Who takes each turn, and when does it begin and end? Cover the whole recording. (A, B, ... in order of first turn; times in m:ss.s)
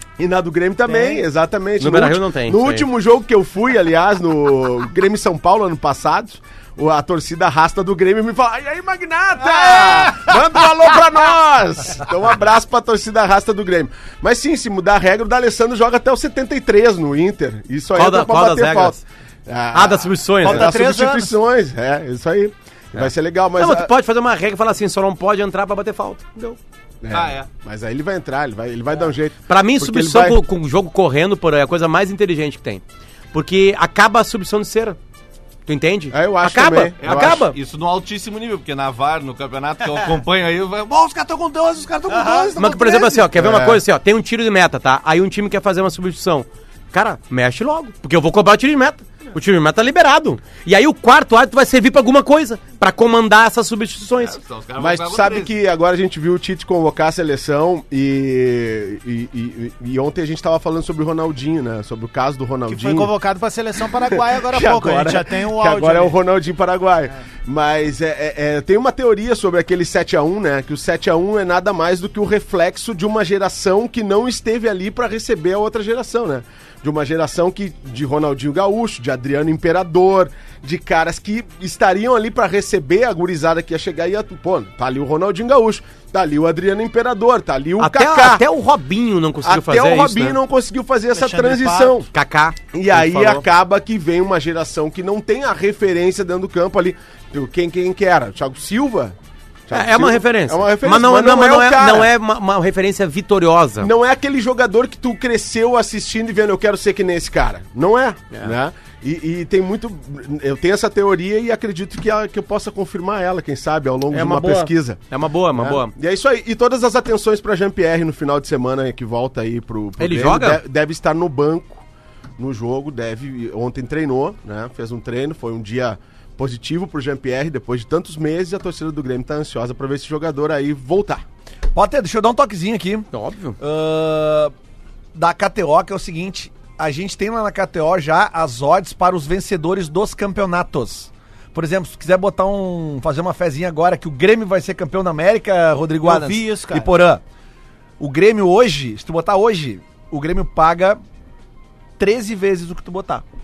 0:00.2-0:23.9 A
0:00.8-0:01.3 B
0:01.8-0:02.9 C
0:09.4-0:10.6 B
0:18.0-0:19.0 C
0:19.7-0:20.8 C
0:20.4-0:21.3 B
0:22.9-0:26.6 C
0:27.0-0:30.4 A
0:27.1-0:27.5 D
0:29.5-0:35.0 C
0:35.6-0:37.6 C
0:36.1-0:37.5 A
0:37.0-0:42.2 D
0:41.8-0:43.2 E
0:42.2-0:42.5 B
0:42.6-0:54.4 C
0:43.3-0:43.8 A
0:54.2-0:55.5 D
0:54.8-1:03.2 A
1:02.7-1:06.2 B
1:03.9-1:28.4 A
1:27.8-1:30.4 C
1:29.4-1:32.1 A
1:31.1-1:32.0 B
1:32.1-1:33.4 C
1:32.7-1:39.1 A
1:39.7-1:42.1 A
1:39.7-1:43.9 C
1:43.8-1:55.0 A
1:48.3-1:48.6 C
1:54.1-1:55.9 C
1:55.6-2:01.8 A
2:00.0-2:00.6 C
2:02.4-2:11.2 A
2:11.7-2:13.1 E
2:13.1-2:13.6 C
2:13.6-2:14.5 E
2:15.1-2:27.2 E
2:26.0-2:26.9 B
2:28.0-2:31.0 E
2:32.0-2:33.2 E